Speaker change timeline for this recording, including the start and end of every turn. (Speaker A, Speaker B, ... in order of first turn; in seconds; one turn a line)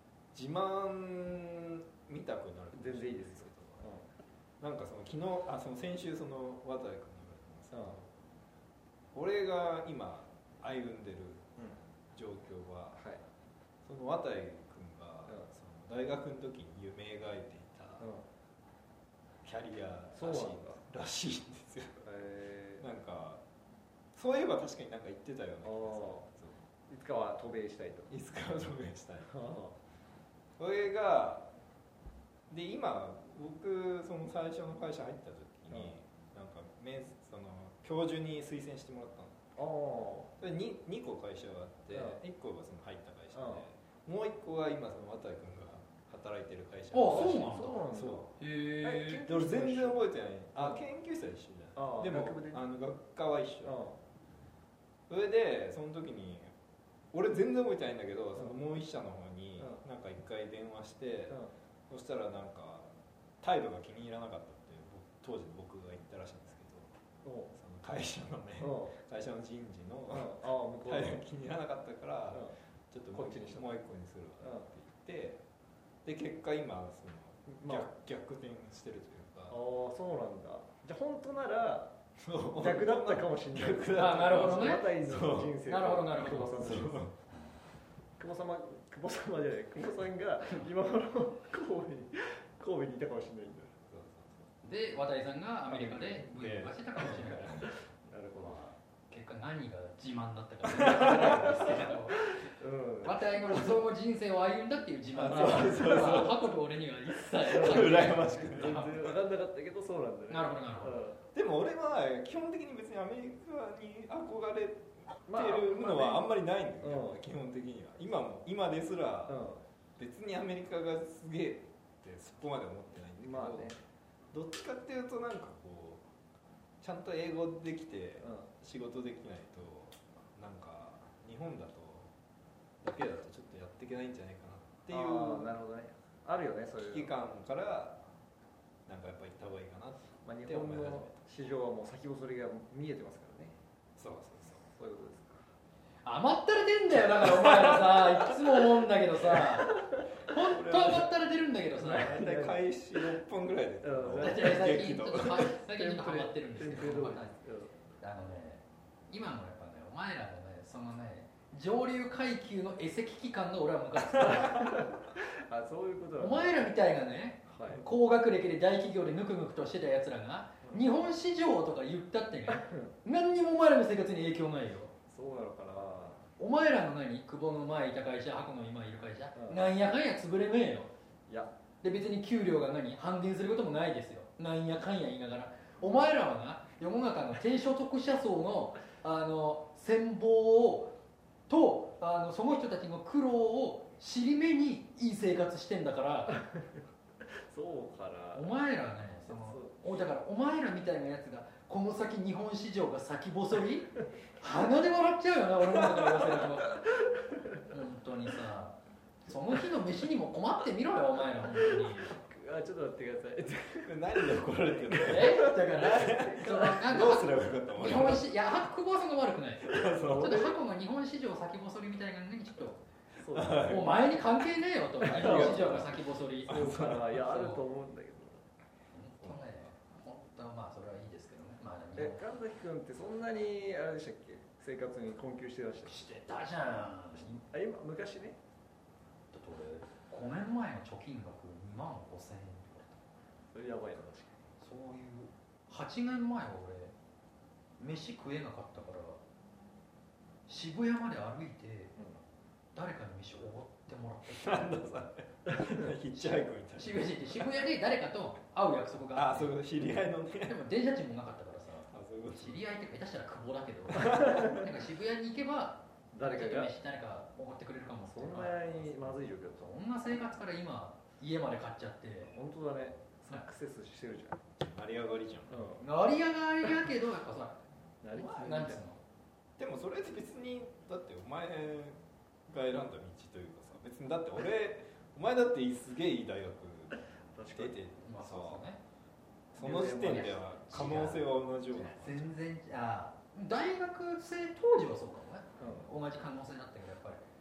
Speaker A: 0.3-3.8
Speaker B: 2.7-4.1
Speaker A: 4.6-8.1
Speaker B: 7.7-8.0
Speaker A: 9.1-11.5
Speaker A: 12.1-13.0
Speaker B: 12.9-13.2
Speaker A: 13.8-18.1
Speaker B: 18.0-18.3
Speaker A: 19.4-22.0
Speaker B: 20.1-20.8
Speaker B: 22.0-22.9
Speaker A: 22.8-23.4
Speaker A: 24.1-26.6
Speaker B: 25.6-26.2
Speaker B: 26.9-28.1
Speaker A: 28.1-29.5
Speaker B: 29.3-29.8
Speaker A: 30.6-31.5
Speaker A: 32.5-39.4
Speaker B: 35.7-36.0
Speaker B: 39.6-40.3
Speaker A: 40.4-48.3
Speaker B: 41.9-42.2
Speaker B: 43.3-43.6
Speaker C: 46.9-49.2
Speaker B: 47.1-48.3
Speaker B: 48.8-50.0
Speaker A: 49.2-53.8
Speaker B: 50.6-50.8
Speaker B: 51.8-52.6
Speaker B: 53.6-54.0
Speaker A: 55.1-56.5
Speaker A: 57.1-62.9
Speaker A: 63.4-66.9
Speaker B: 67.2-67.5
Speaker A: 67.5-75.4
Speaker B: 68.6-68.9
Speaker B: 70.1-71.2
Speaker B: 72.3-72.6
Speaker B: 73.1-73.8
Speaker B: 74.4-74.7
Speaker A: 76.0-79.6
Speaker B: 77.5-77.9
Speaker B: 79.5-82.0
Speaker A: 82.2-85.6
Speaker B: 82.6-87.0
Speaker C: 84.0-84.9
Speaker C: 85.7-86.7
Speaker A: 86.3-87.2
Speaker B: 88.2-93.7
Speaker A: 93.8-94.5
Speaker C: 94.6-97.8
Speaker A: 95.7-97.7
Speaker B: 98.1-98.6
Speaker C: 98.4-102.4
Speaker A: 100.8-101.7
Speaker B: 101.0-103.7
Speaker C: 103.0-108.9
Speaker A: 105.2-106.5
Speaker B: 105.3-106.3
Speaker A: 107.4-109.2
Speaker B: 107.5-111.2
Speaker C: 110.3-111.0
Speaker A: 111.3-123.8
Speaker B: 115.3-116.2
Speaker B: 116.8-117.2
Speaker B: 119.3-119.6
Speaker B: 123.2-123.8
Speaker A: 124.3-126.0
Speaker A: 126.8-132.1
Speaker B: 128.2-128.5
Speaker A: 132.8-135.6
Speaker B: 134.9-137.1
Speaker A: 136.8-138.0
Speaker A: 138.9-141.2
Speaker B: 140.2-143.6
Speaker A: 144.0-144.7
Speaker B: 144.7-145.5
Speaker C: 146.0-152.2
Speaker B: 149.5-150.0
Speaker A: 150.3-151.1
Speaker A: 151.8-155.5
Speaker B: 151.8-153.2
Speaker B: 153.8-154.8
Speaker C: 154.1-157.4
Speaker B: 155.5-157.7
Speaker C: 158.0-164.8
Speaker B: 164.5-166.7
Speaker C: 166.2-174.9
Speaker B: 167.5-167.8
Speaker B: 172.5-172.9
Speaker B: 175.1-176.2
Speaker C: 176.4-180.9
Speaker B: 179.3-179.6
Speaker C: 181.8-191.0
Speaker C: 191.5-196.4
Speaker B: 196.4-196.7
Speaker B: 197.2-198.5
Speaker C: 198.3-206.9
Speaker B: 199.3-199.9
Speaker A: 205.8-206.5
Speaker B: 207.1-207.6
Speaker C: 207.6-212.2
Speaker B: 211.5-216.8
Speaker A: 213.8-218.2
Speaker C: 215.0-222.8
Speaker A: 219.7-220.5
Speaker B: 223.2-224.1
Speaker A: 223.3-223.9
Speaker C: 223.7-227.6
Speaker B: 225.0-225.9
Speaker A: 225.0-227.3
Speaker B: 226.5-228.4
Speaker C: 228.9-232.2
Speaker A: 229.2-229.6
Speaker B: 232.0-236.1
Speaker C: 235.8-237.4
Speaker B: 237.2-238.4
Speaker C: 239.3-243.0
Speaker B: 243.5-244.5
Speaker C: 244.6-246.9
Speaker C: 247.8-249.2
Speaker C: 250.5-252.0
Speaker B: 252.0-252.2
Speaker C: 252.8-255.1
Speaker A: 254.3-257.5
Speaker B: 255.5-255.9
Speaker C: 256.2-259.5
Speaker A: 259.1-260.6
Speaker C: 260.5-272.3
Speaker A: 261.9-262.6
Speaker A: 263.9-264.5
Speaker B: 266.1-266.7
Speaker B: 268.1-269.8
Speaker B: 272.3-274.4
Speaker A: 274.6-275.8
Speaker B: 275.5-275.8
Speaker C: 275.8-277.6
Speaker B: 278.0-278.8
Speaker C: 278.1-279.0
Speaker A: 279.6-282.0
Speaker A: 282.5-287.0
Speaker B: 287.4-287.8
Speaker A: 287.5-288.6
Speaker C: 288.0-288.8
Speaker A: 289.5-292.3
Speaker B: 289.6-290.4
Speaker C: 289.9-297.2
Speaker B: 295.6-295.9